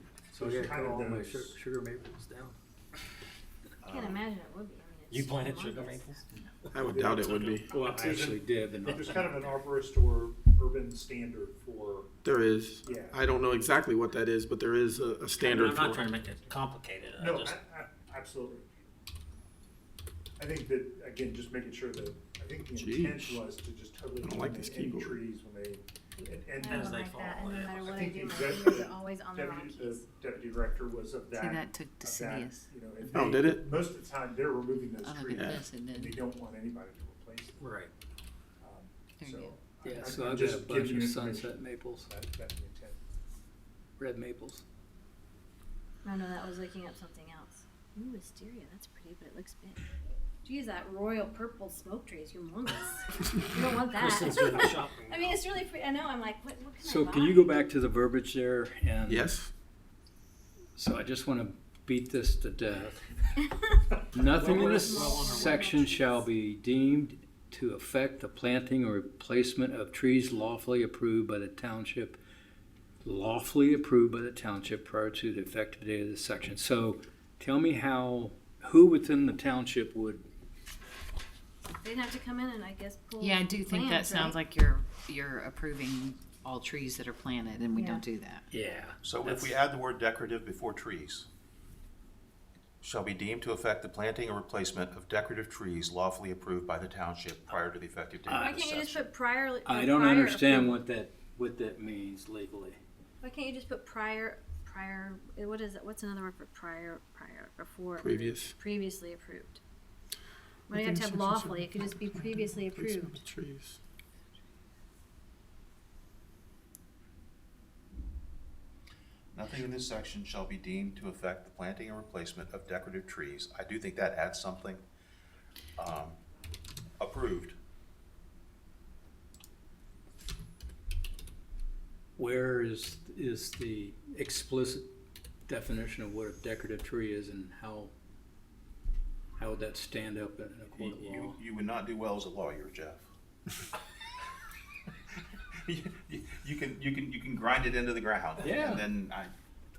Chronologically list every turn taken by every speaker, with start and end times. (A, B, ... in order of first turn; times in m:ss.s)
0:00.3-0:02.6 A
0:00.4-0:01.6 B
0:03.8-0:04.2 C
0:03.8-0:06.2 D
0:05.1-0:07.9 E
0:06.7-0:07.7 F
0:06.8-0:12.1 B
0:07.7-0:09.5 A
0:12.2-0:16.0 F
0:12.8-0:13.2 B
0:15.4-0:17.6 E
0:17.2-0:18.7 B
0:20.4-0:27.1 B
0:22.8-0:23.4 F
0:24.2-0:25.2 F
0:26.2-0:30.1 D
0:26.7-0:28.1 E
0:27.9-0:37.6 B
0:31.4-0:32.6 G
0:33.1-0:33.7 F
0:35.0-0:36.1 G
0:35.3-0:35.6 F
0:37.6-0:37.9 E
0:38.6-0:43.0 B
0:39.2-0:39.5 G
0:39.8-0:42.1 A
0:44.0-0:44.6 A
0:46.0-0:49.8 D
0:50.4-0:57.5 D
0:53.8-0:55.6 E
0:56.8-0:59.3 A
0:59.1-0:59.5 F
1:00.8-1:03.1 A
1:04.1-1:12.2 A
1:04.2-1:05.8 E
1:04.3-1:06.2 D
1:13.0-1:20.2 A
1:21.8-1:24.4 D
1:23.2-1:28.4 G
1:27.7-1:28.0 D
1:28.5-1:29.6 A
1:29.0-1:31.3 C
1:32.8-1:39.1 C
1:38.2-1:38.5 A
1:38.3-1:40.8 D
1:39.6-1:42.8 A
1:43.2-1:49.6 D
1:48.0-1:48.5 F
1:50.7-1:53.2 D
1:50.7-1:53.8 F
1:59.3-2:04.8 C
2:05.8-2:06.2 C
2:07.0-2:07.6 C
2:12.2-2:14.9 A
2:15.5-2:17.9 A
2:19.4-2:21.4 A
2:20.7-2:23.0 C
2:25.6-2:29.3 C
2:28.4-2:28.8 A